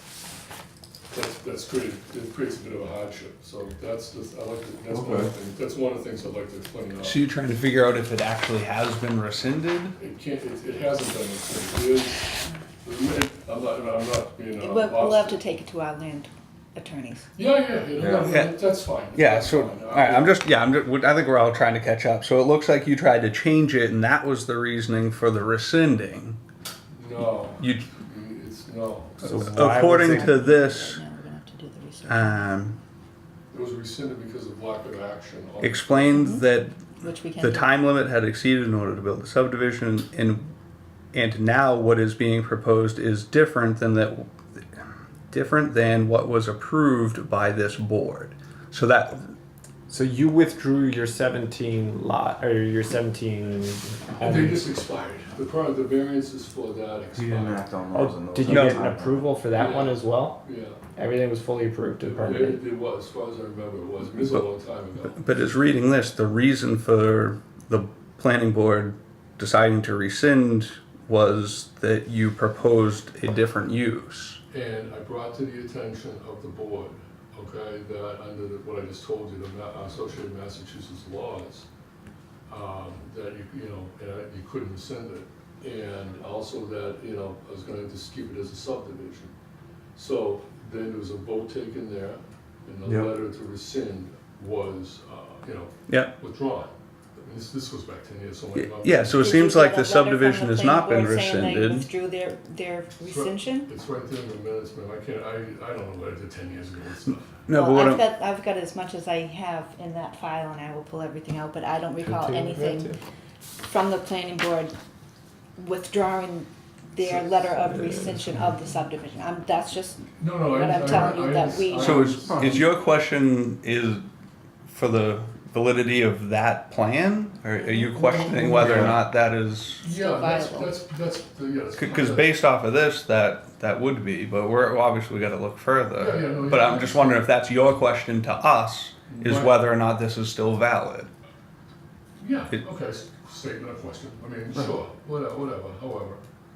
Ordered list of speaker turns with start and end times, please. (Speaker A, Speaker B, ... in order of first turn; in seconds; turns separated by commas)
Speaker A: 1.1-7.2, Speaker B: 4.9-5.3, Speaker C: 7.0-9.9, Speaker A: 10.0-12.3, Speaker A: 12.8-15.4, Speaker D: 14.6-17.3, Speaker A: 17.3-20.4, Speaker B: 18.0-18.3, Speaker C: 18.3-18.5, Speaker C: 19.1-26.4, Speaker A: 26.9-29.8, Speaker C: 27.6-27.9, Speaker C: 29.2-31.0, Speaker E: 29.2-30.3, Speaker D: 29.8-32.5, Speaker C: 32.0-32.8, Speaker A: 33.5-36.1, Speaker C: 35.6-40.5, Speaker D: 36.1-36.4, Speaker D: 37.0-37.7, Speaker C: 41.1-49.2, Speaker E: 49.9-54.6, Speaker A: 54.2-57.7, Speaker B: 57.1-59.3, Speaker E: 57.9-60.4, Speaker C: 58.5-58.9, Speaker A: 59.5-60.8, Speaker E: 61.0-62.6, Speaker A: 62.1-65.2, Speaker C: 65.0-74.4, Speaker A: 74.5-81.7, Speaker A: 82.5-89.3, Speaker A: 89.9-99.3, Speaker C: 95.9-96.1, Speaker C: 98.5-101.9, Speaker D: 99.2-103.7, Speaker A: 103.0-107.4, Speaker C: 107.5-108.0, Speaker D: 107.5-112.9, Speaker E: 112.0-113.0, Speaker D: 113.6-114.7, Speaker D: 115.6-122.0, Speaker A: 120.2-122.6, Speaker C: 121.8-124.0, Speaker B: 122.2-122.6, Speaker C: 124.7-129.8, Speaker D: 127.6-127.8, Speaker A: 128.0-129.0, Speaker B: 128.5-128.9, Speaker A: 129.8-132.3, Speaker D: 129.9-130.7, Speaker C: 131.7-141.1, Speaker A: 135.9-137.2, Speaker A: 139.1-139.6, Speaker A: 142.2-146.2